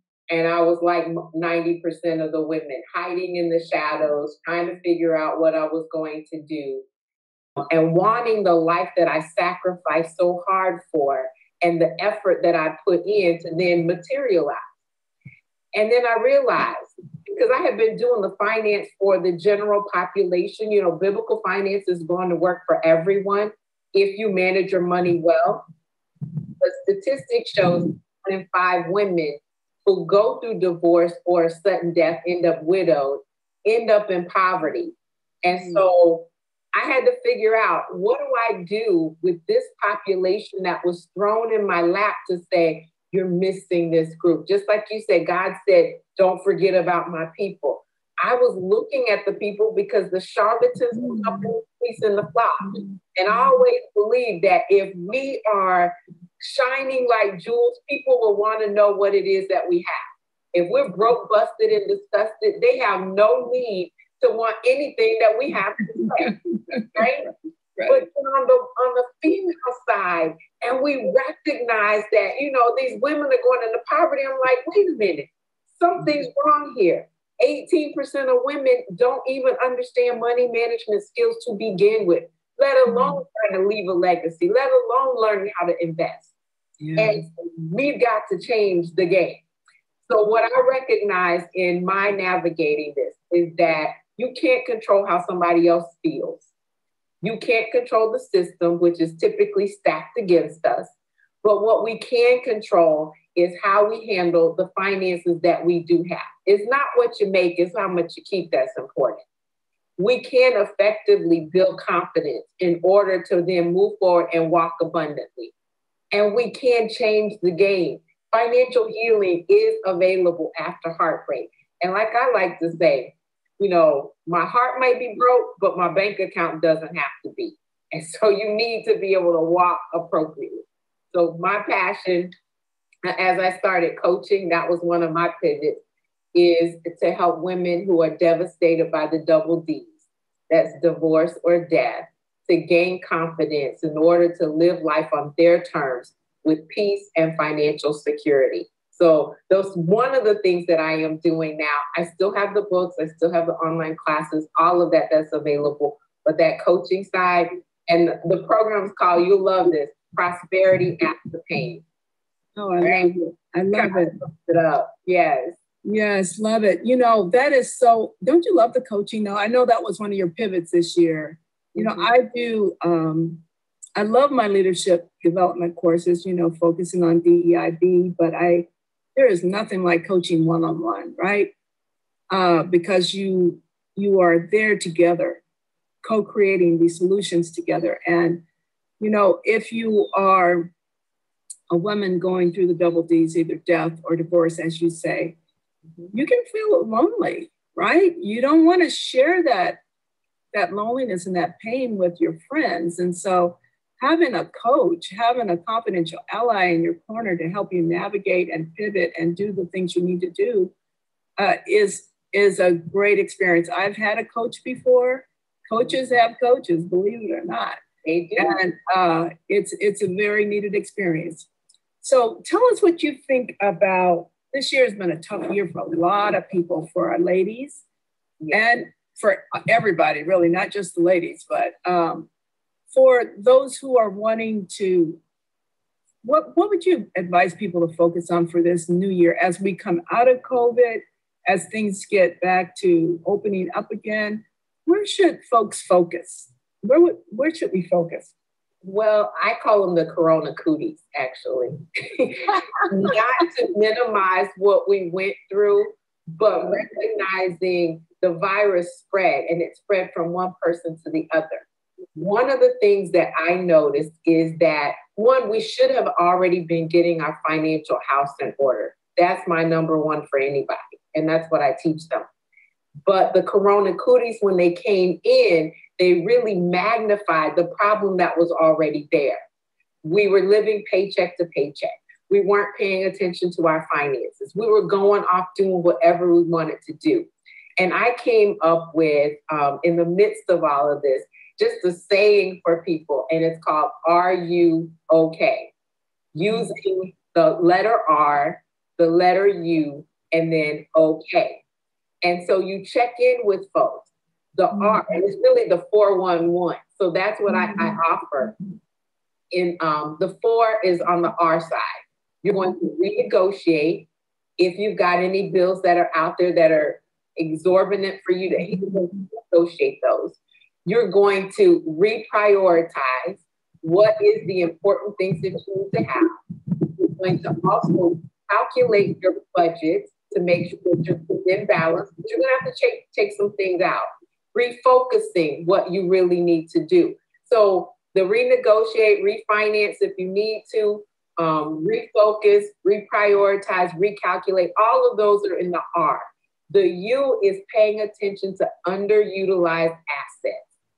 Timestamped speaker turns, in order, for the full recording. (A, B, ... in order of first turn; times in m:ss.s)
0:00.3-0:06.8 A
0:07.7-0:14.6 A
0:15.7-0:25.6 A
0:26.6-1:00.0 A
0:35.5-0:35.8 B
0:50.9-0:51.5 B
0:52.8-0:53.4 B
1:00.5-1:06.3 A
1:06.0-1:07.0 B
1:06.9-1:07.2 A
1:07.9-1:26.3 A
1:22.9-1:23.2 B
1:26.8-1:27.2 B
1:27.0-1:29.4 A
1:30.0-1:36.5 A
1:37.2-1:40.9 A
1:41.4-1:49.2 A
1:50.0-1:55.5 A
1:56.1-2:12.3 A
2:13.1-2:15.8 A
2:16.3-2:20.0 A
2:20.5-2:41.8 A
2:42.6-2:44.1 B
2:42.8-2:43.1 A
2:43.7-2:45.6 A
2:45.8-2:53.4 B
2:51.8-2:52.1 A
2:54.0-3:01.5 B
3:02.3-3:05.4 B
3:06.0-3:08.4 B
3:09.0-3:10.7 B
3:11.7-3:15.4 B
3:16.1-3:19.8 B
3:20.5-3:30.7 B
3:31.4-3:37.8 B
3:38.0-3:38.6 A
3:38.4-3:41.5 B
3:42.0-3:47.8 B
3:48.5-3:52.3 B
3:52.9-3:55.2 B
3:56.2-4:08.3 B
4:08.8-4:21.6 A
4:22.2-4:32.3 A
4:33.0-4:39.4 A
4:40.0-4:55.7 A
4:56.3-5:01.6 A
5:02.2-5:08.5 A
5:09.5-5:26.4 A
5:27.0-5:50.6 A